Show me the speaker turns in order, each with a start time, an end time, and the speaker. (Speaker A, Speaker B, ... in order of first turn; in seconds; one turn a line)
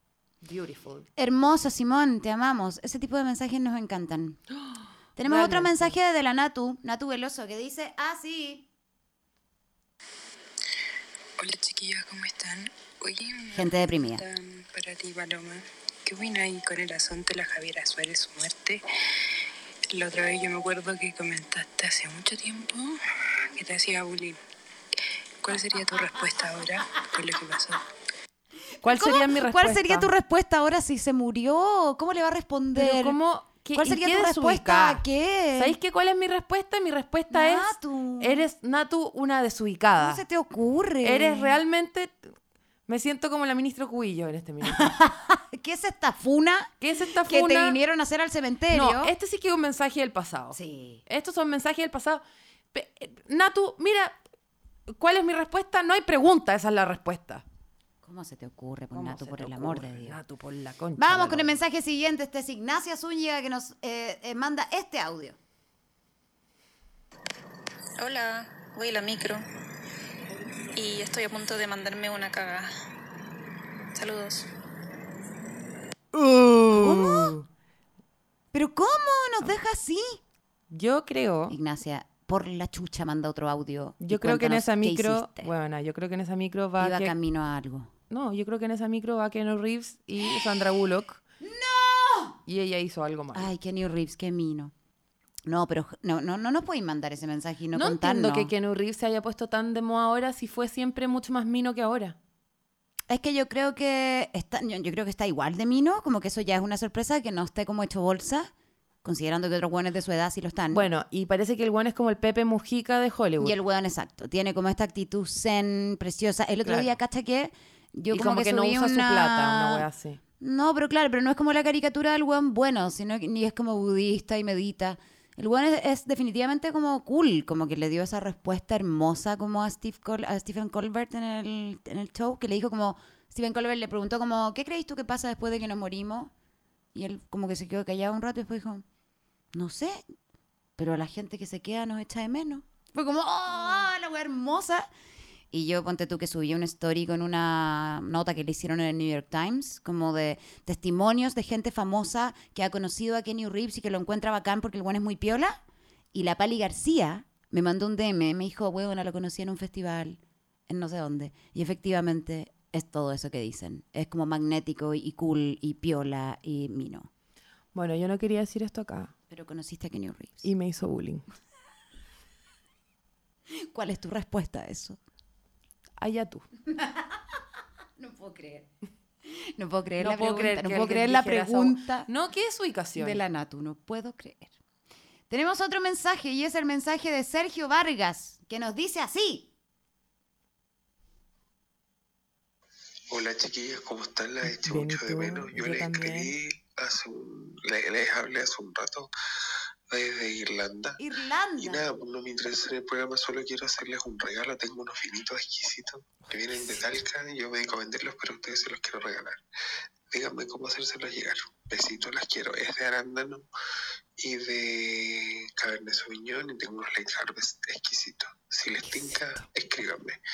Speaker A: 0.4-1.1
Speaker B: 1.1-4.4
Speaker A: 4.5-6.0
Speaker B: 5.2-8.7
Speaker C: 11.4-18.8
Speaker B: 13.5-14.2
Speaker C: 19.9-23.0
Speaker C: 23.5-24.4
Speaker C: 25.4-27.8
Speaker A: 28.8-30.1
Speaker B: 28.8-33.2
Speaker A: 32.7-35.0
Speaker B: 33.7-35.8
Speaker A: 35.5-40.2
Speaker B: 37.3-38.5
Speaker B: 40.0-41.6
Speaker A: 41.0-42.3
Speaker A: 42.9-44.9
Speaker B: 44.6-49.1
Speaker A: 46.8-47.8
Speaker A: 48.7-52.2
Speaker B: 50.5-51.0
Speaker A: 52.7-54.2
Speaker A: 54.9-57.4
Speaker B: 58.0-60.2
Speaker A: 58.9-61.6
Speaker B: 61.0-65.4
Speaker D: 68.0-69.4
Speaker D: 70.7-72.7
Speaker D: 73.9-74.5
Speaker A: 76.1-77.4
Speaker B: 76.7-77.3
Speaker B: 78.5-80.2
Speaker A: 80.7-81.5
Speaker B: 81.5-85.5
Speaker A: 84.0-87.1
Speaker B: 86.8-87.9
Speaker A: 88.1-91.2
Speaker B: 91.4-92.4
Speaker A: 92.5-93.5
Speaker B: 93.3-94.7
Speaker B: 95.4-98.5
Speaker A: 97.7-102.2
Speaker B: 103.1-108.5
Speaker B: 109.0-110.9
Speaker A: 110.7-113.5
Speaker B: 113.4-119.9
Speaker A: 116.6-117.0
Speaker A: 118.1-120.2
Speaker B: 120.4-136.3
Speaker B: 136.9-138.8
Speaker B: 139.5-140.0
Speaker B: 140.8-144.9
Speaker B: 145.5-155.6
Speaker B: 156.1-167.1
Speaker A: 167.7-169.1
Speaker B: 169.3-170.5
Speaker A: 170.4-171.2
Speaker B: 173.5-175.0
Speaker A: 176.0-176.4
Speaker B: 176.7-177.4
Speaker B: 178.0-178.7
Speaker B: 179.2-182.1
Speaker A: 180.0-183.2
Speaker B: 182.9-184.5
Speaker B: 185.3-189.5
Speaker E: 193.1-199.1
Speaker A: 194.4-196.3
Speaker E: 199.9-201.0
Speaker B: 201.0-201.9
Speaker E: 201.6-209.4
Speaker A: 206.2-206.8
Speaker E: 210.1-213.4
Speaker E: 214.2-220.2
Speaker A: 218.8-219.5